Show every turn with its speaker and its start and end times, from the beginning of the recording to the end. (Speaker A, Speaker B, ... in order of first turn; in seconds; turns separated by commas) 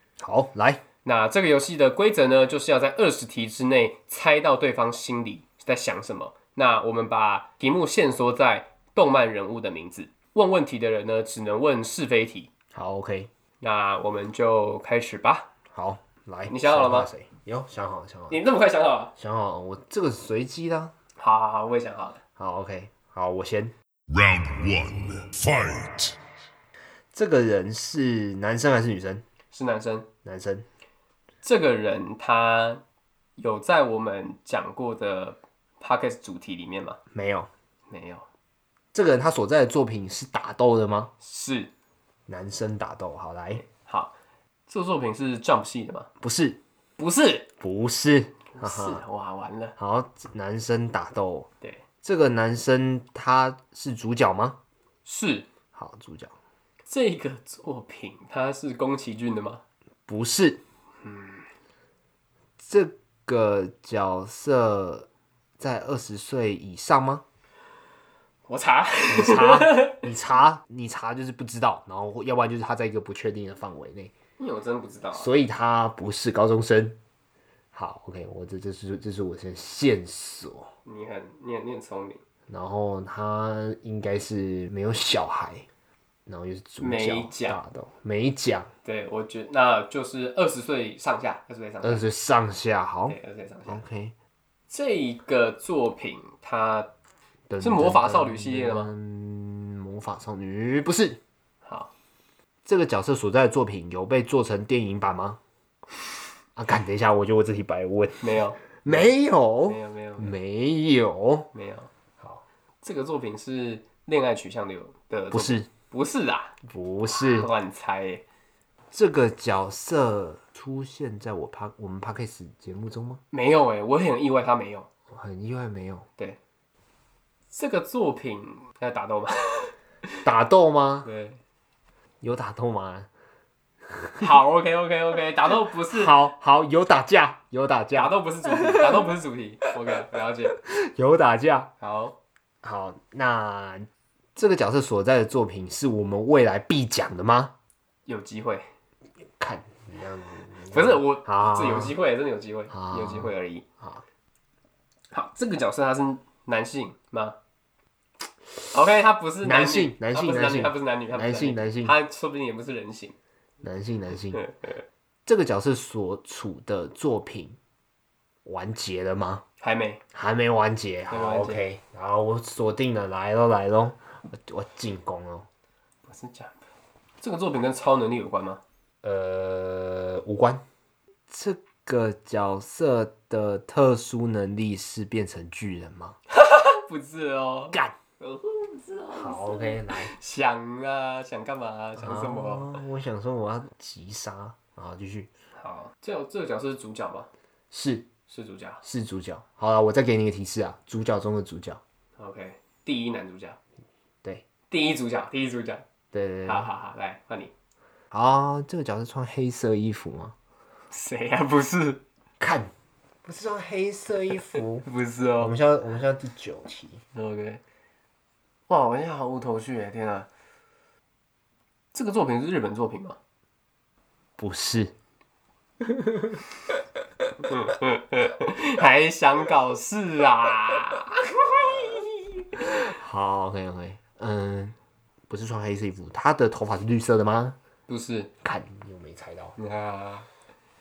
Speaker A: 0.2-0.8, Speaker B: 1.0-12.5, Speaker A: 12.7-13.3, Speaker B: 13.6-15.5, Speaker A: 15.7-18.4, Speaker B: 16.5-17.1, Speaker B: 18.3-19.1, Speaker A: 19.2-20.9, Speaker B: 21.2-22.2, Speaker A: 22.4-23.7, Speaker C: 24.1-26.2, Speaker A: 27.1-29.2, Speaker B: 29.5-30.1, Speaker A: 30.2-30.7, Speaker B: 31.4-32.8, Speaker B: 33.4-37.0, Speaker A: 37.1-37.5, Speaker B: 37.9-38.2, Speaker A: 38.9-41.1, Speaker B: 41.2-41.7, Speaker A: 42.3-43.6, Speaker B: 43.6-44.1, Speaker B: 44.7-46.1, Speaker A: 46.2-46.6, Speaker B: 47.0-47.5, Speaker A: 47.6-49.0, Speaker B: 48.5-49.8, Speaker A: 49.8-51.5, Speaker A: 52.0-54.6, Speaker B: 55.0-55.5, Speaker A: 55.8-56.3, Speaker B: 56.9-59.6, Speaker A: 60.1-60.6, Speaker B: 61.0-61.5, Speaker A: 62.6-65.1, Speaker A: 65.6-67.2, Speaker B: 68.5-70.0, Speaker A: 69.1-74.1, Speaker B: 74.4-75.3, Speaker A: 75.1-77.0, Speaker A: 77.7-80.7, Speaker B: 80.8-82.2, Speaker A: 82.5-85.7, Speaker A: 86.3-88.7, Speaker B: 86.8-87.6, Speaker B: 88.8-92.0, Speaker A: 91.8-94.1, Speaker B: 93.1-93.8, Speaker B: 94.7-96.9, Speaker A: 97.5-101.2, Speaker B: 97.6-98.9, Speaker B: 101.7-101.9, Speaker A: 102.7-105.4, Speaker A: 106.6-111.5, Speaker B: 108.2-108.8, Speaker B: 109.7-110.4, Speaker B: 111.5-111.9, Speaker B: 112.8-116.5, Speaker A: 115.3-115.7, Speaker A: 116.6-117.5, Speaker B: 117.2-118.2, Speaker A: 118.9-123.2, Speaker B: 123.3-124.9, Speaker A: 125.1-126.1, Speaker B: 127.5-129.8, Speaker A: 130.2-131.1, Speaker B: 131.0-131.4, Speaker A: 132.2-133.1, Speaker B: 134.2-136.1, Speaker A: 135.9-139.1, Speaker B: 137.9-140.6, Speaker A: 140.6-141.7, Speaker B: 141.8-142.2, Speaker A: 142.6-147.5, Speaker B: 148.1-148.7, Speaker A: 149.4-151.9, Speaker B: 150.7-153.7, Speaker A: 152.7-154.0, Speaker B: 155.1-157.4, Speaker B: 158.7-163.2, Speaker A: 159.4-162.0, Speaker A: 163.6-164.4, Speaker B: 164.3-164.8, Speaker A: 165.3-167.6, Speaker A: 168.4-169.4, Speaker B: 169.6-170.0, Speaker A: 170.1-175.5, Speaker B: 171.1-171.6, Speaker B: 176.1-176.6, Speaker B: 177.2-178.6, Speaker A: 179.0-180.6, Speaker A: 181.3-186.2, Speaker B: 186.3-192.8, Speaker A: 189.1-190.1, Speaker A: 192.0-195.3, Speaker B: 195.6-197.3, Speaker A: 197.7-198.1, Speaker B: 198.3-198.8, Speaker A: 198.8-201.8, Speaker B: 202.2-203.6, Speaker B: 204.7-205.8, Speaker A: 206.1-206.7, Speaker B: 206.5-207.5, Speaker A: 208.1-210.3, Speaker B: 210.9-212.0, Speaker A: 212.4-212.7, Speaker A: 213.2-214.9, Speaker B: 214.8-215.6, Speaker A: 215.4-217.0, Speaker B: 217.1-217.6, Speaker B: 218.7-220.3, Speaker B: 221.9-223.2, Speaker A: 224.4-224.9, Speaker B: 227.4-232.3, Speaker A: 232.6-234.8, Speaker A: 235.3-237.6, Speaker B: 237.9-238.3, Speaker A: 238.4-239.6, Speaker B: 239.6-240.3